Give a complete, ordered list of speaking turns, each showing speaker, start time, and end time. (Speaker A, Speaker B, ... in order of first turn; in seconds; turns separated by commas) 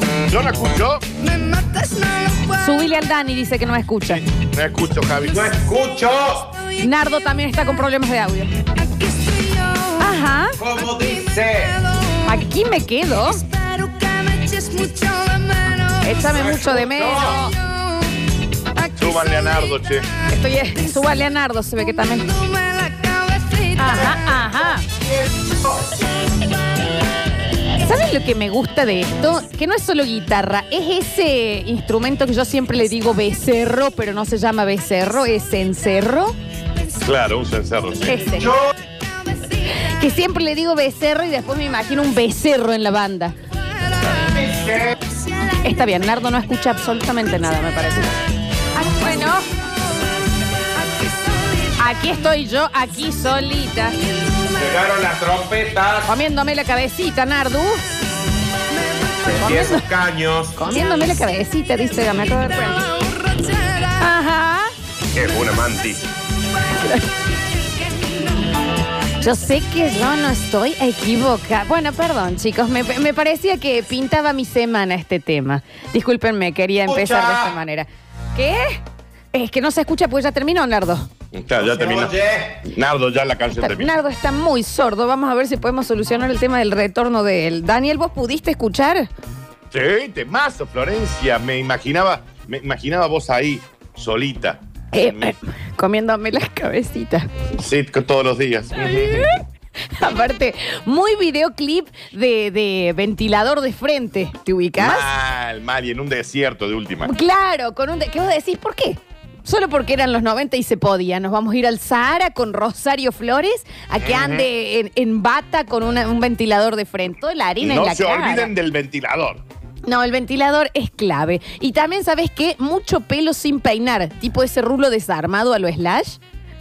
Speaker A: 0.3-1.0, Speaker B: 1.2-2.8, Speaker C: 2.5-4.2, Speaker A: 4.0-5.5, Speaker D: 5.3-6.5, Speaker C: 6.8-8.5, Speaker B: 8.7-10.1, Speaker C: 10.0-10.6, Speaker D: 10.6-11.8, Speaker B: 10.6-12.3, Speaker C: 12.2-13.4, Speaker B: 13.4-18.1, Speaker C: 16.0-17.4, Speaker D: 16.6-17.3, Speaker B: 18.7-20.2, Speaker A: 18.9-20.1, Speaker C: 20.2-22.4, Speaker B: 22.3-24.1, Speaker C: 23.8-24.8, Speaker C: 27.8-36.4, Speaker A: 36.9-38.2, Speaker C: 38.0-38.5, Speaker D: 38.4-38.7, Speaker B: 39.0-39.7, Speaker C: 39.7-43.3, Speaker B: 43.9-44.4, Speaker D: 44.2-45.0, Speaker B: 45.0-45.6, Speaker C: 45.6-48.1, Speaker C: 48.7-49.5, Speaker B: 50.8-51.7, Speaker C: 51.8-54.0, Speaker D: 54.5-56.1, Speaker C: 56.1-57.9, Speaker B: 58.9-59.1, Speaker D: 59.2-60.6, Speaker C: 59.4-59.9, Speaker C: 60.5-63.0, Speaker B: 62.9-64.0, Speaker C: 64.0-64.7, Speaker D: 65.1-66.1, Speaker C: 66.7-67.1, Speaker B: 67.6-68.1, Speaker C: 69.2-78.8, Speaker D: 76.9-77.5, Speaker C: 79.3-81.1, Speaker A: 81.3-82.2, Speaker D: 81.6-82.7, Speaker A: 82.7-83.9, Speaker C: 83.6-89.1, Speaker A: 89.7-94.6, Speaker C: 94.9-97.3, Speaker A: 97.6-99.2, Speaker C: 98.7-99.4, Speaker C: 100.0-105.1, Speaker A: 104.8-107.1, Speaker C: 107.0-118.5, Speaker A: 114.0-114.5, Speaker A: 117.6-119.4, Speaker C: 119.8-126.2